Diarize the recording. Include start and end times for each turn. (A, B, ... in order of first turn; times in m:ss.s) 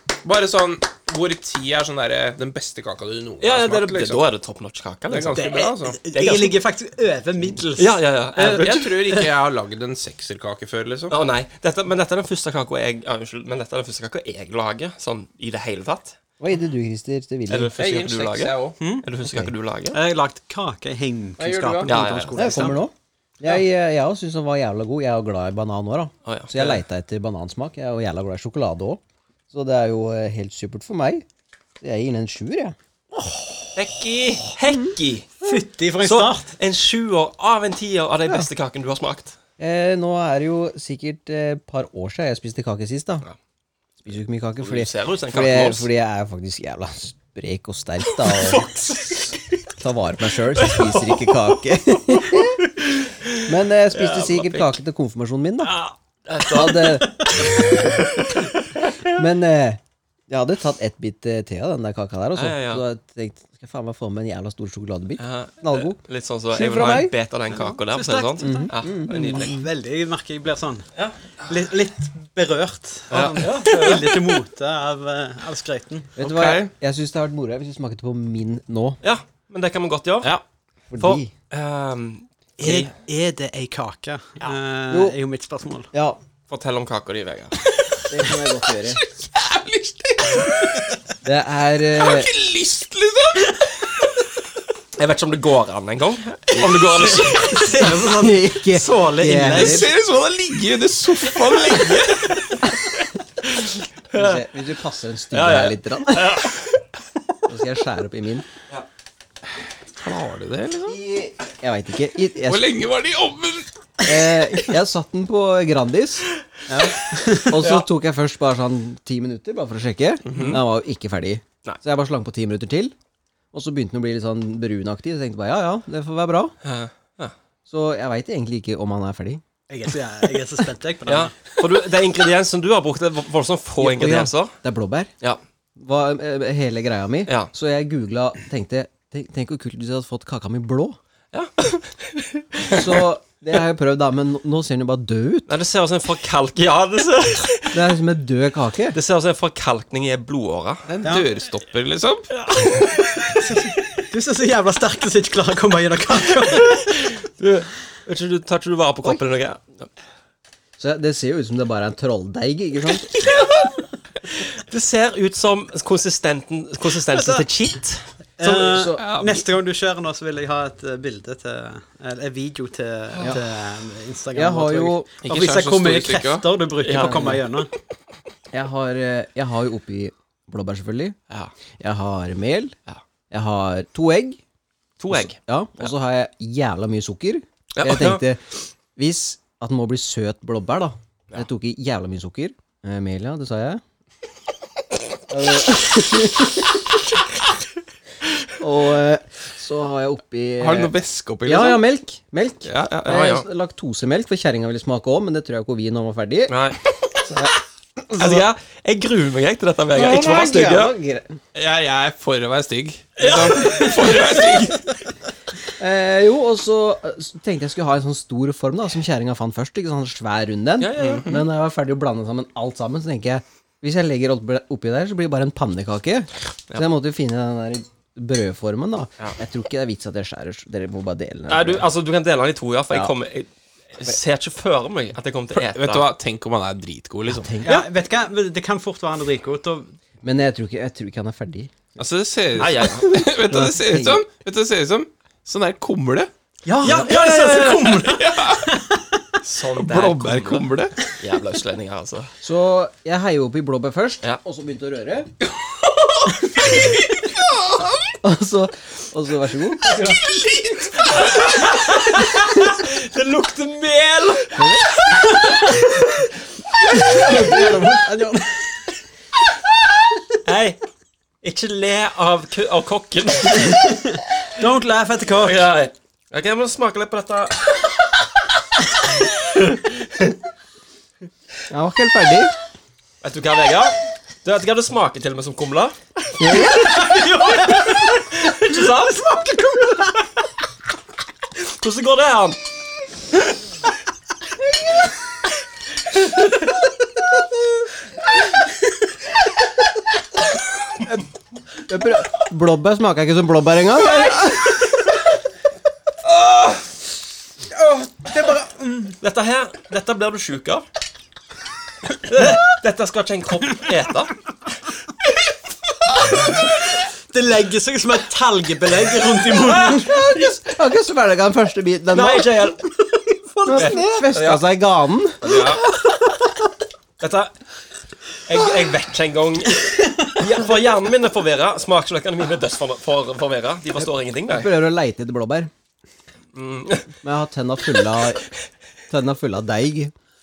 0:00.2-0:04.2 A
0:03.4-0:05.6 B
0:05.1-0:06.0 A
0:05.3-0:09.3 C
0:06.1-0:06.6 B
0:07.8-0:08.9 B
0:08.4-0:11.2 A
0:11.1-0:16.2 B
0:16.4-0:17.7 D
0:17.5-0:20.0 B
0:17.7-0:18.8 A
0:18.8-0:19.1 C
0:19.9-0:22.8 C
0:21.4-0:21.9 A
0:21.8-0:22.8 B
0:22.3-0:31.2 D
0:26.3-0:26.8 B
0:31.8-0:32.8 D
0:33.8-0:35.4 B
0:35.4-0:36.6 C
0:36.0-0:39.4 B
0:39.6-0:43.3 D
0:44.0-0:48.7 D
0:44.6-0:45.9 B
0:48.2-0:49.2 B
0:49.8-0:52.7 D
0:50.6-0:51.3 B
0:52.8-0:54.8 B
0:53.4-0:55.8 D
0:55.6-0:59.1 B
0:56.5-0:57.8 D
0:59.1-1:06.0 D
1:02.4-1:02.8 B
1:05.2-1:09.6 B
1:06.6-1:07.1 D
1:07.6-1:10.9 C
1:08.4-1:09.6 D
1:11.4-1:16.1 C
1:13.1-1:14.4 B
1:16.2-1:19.0 D
1:16.2-1:16.7 A
1:19.0-1:20.3 B
1:20.9-1:21.3 D
1:21.0-1:22.9 B
1:22.6-1:25.9 C
1:24.9-1:25.2 D
1:25.9-1:26.2 D
1:26.5-1:27.6 B
1:28.1-1:29.0 D
1:28.9-1:30.9 A
1:31.2-1:32.3 D
1:32.0-1:33.6 A
1:35.0-1:37.9 B
1:36.6-1:37.6 A
1:37.3-1:39.9 C
1:38.1-1:39.9 D
1:39.5-1:42.4 A
1:41.4-1:42.7 B
1:43.4-1:44.4 B
1:44.1-1:46.5 D
1:45.3-1:46.8 B
1:47.5-1:48.5 D
1:50.0-1:51.0 A
1:50.9-1:52.7 D
1:52.5-1:53.7 A
1:54.0-2:02.9 D
1:56.7-1:57.6 C
1:57.6-1:57.9 B
2:00.3-2:00.6 A
2:00.3-2:00.6 B
2:03.5-2:06.5 D
2:06.6-2:07.3 B
2:07.7-2:09.4 D
2:09.7-2:11.6 C
2:11.1-2:14.6 B
2:13.8-2:15.1 D
2:15.8-2:21.0 D
2:17.3-2:17.5 B
2:21.3-2:23.0 B
2:22.7-2:25.5 D
2:25.5-2:27.9 B
2:27.7-2:29.0 D
2:28.9-2:30.9 B
2:30.9-2:32.3 A
2:32.3-2:33.4 B
2:33.3-2:36.9 C
2:36.5-2:39.9 B
2:40.8-2:43.4 D
2:43.1-2:43.8 B
2:44.3-2:48.7 B
2:47.1-2:47.5 C
2:48.4-2:57.7 C
2:48.4-2:49.0 D
2:49.0-2:49.4 A
2:53.1-2:53.4 B
2:54.3-2:55.1 D
2:55.2-2:56.5 A
2:56.8-2:57.4 B
2:57.0-2:57.4 D
2:58.5-3:01.2 D
3:01.8-3:02.8 D
3:03.3-3:04.4 D
3:05.0-3:05.9 B
3:05.1-3:08.4 D
3:07.8-3:08.2 B
3:09.0-3:13.8 D
3:15.3-3:16.8 D
3:18.6-3:20.9 D
3:20.6-3:21.8 A
3:21.5-3:26.6 D
3:22.6-3:23.3 A
3:23.1-3:23.5 B
3:26.5-3:26.8 B
3:27.2-3:27.5 D
3:28.1-3:28.4 D
3:28.2-3:30.9 B
3:30.0-3:31.4 D
3:31.6-3:34.9 A
3:33.2-3:34.8 B
3:35.8-3:51.9 D
3:40.8-3:41.3 B
3:41.0-3:41.4 A
3:51.5-3:56.1 B
3:55.6-3:57.5 A
3:57.3-3:57.9 D
3:57.6-3:59.9 C
4:00.2-4:01.7 D
4:02.0-4:06.3 A
4:02.6-4:03.3 B
4:03.5-4:04.2 D
4:06.6-4:09.0 C
4:06.8-4:08.1 B
4:06.8-4:07.2 D
4:08.0-4:08.7 A
4:09.4-4:12.3 B
4:09.8-4:11.0 A
4:12.4-4:15.3 D
4:17.3-4:18.1 A
4:18.2-4:20.0 D
4:20.0-4:21.3 A
4:21.0-4:24.7 B
4:24.5-4:24.9 D
4:27.0-4:28.8 C
4:30.4-4:30.8 B
4:31.4-4:34.0 B
4:34.1-4:35.7 C
4:35.4-4:38.3 B
4:39.1-4:40.3 B
4:41.7-4:42.5 D
4:43.2-4:46.0 B
4:46.4-4:47.1 D
4:46.6-4:50.2 B
4:46.8-4:48.2 C
4:51.6-4:52.6 B
5:01.9-5:04.9 D
5:07.7-5:09.2 C
5:09.2-5:10.9 B
5:12.2-5:14.4 B
5:17.3-5:20.2 C
5:19.7-5:22.7 D
5:20.0-5:20.5 B
5:22.1-5:22.9 B
5:23.5-5:24.2 C
5:23.6-5:25.8 D
5:23.7-5:24.7 B
5:25.4-5:25.9 B
5:27.2-5:27.6 B
5:28.5-5:34.7 B
5:34.5-5:35.7 D
5:36.5-5:37.1 B
5:37.2-5:38.5 D
5:39.1-5:40.1 D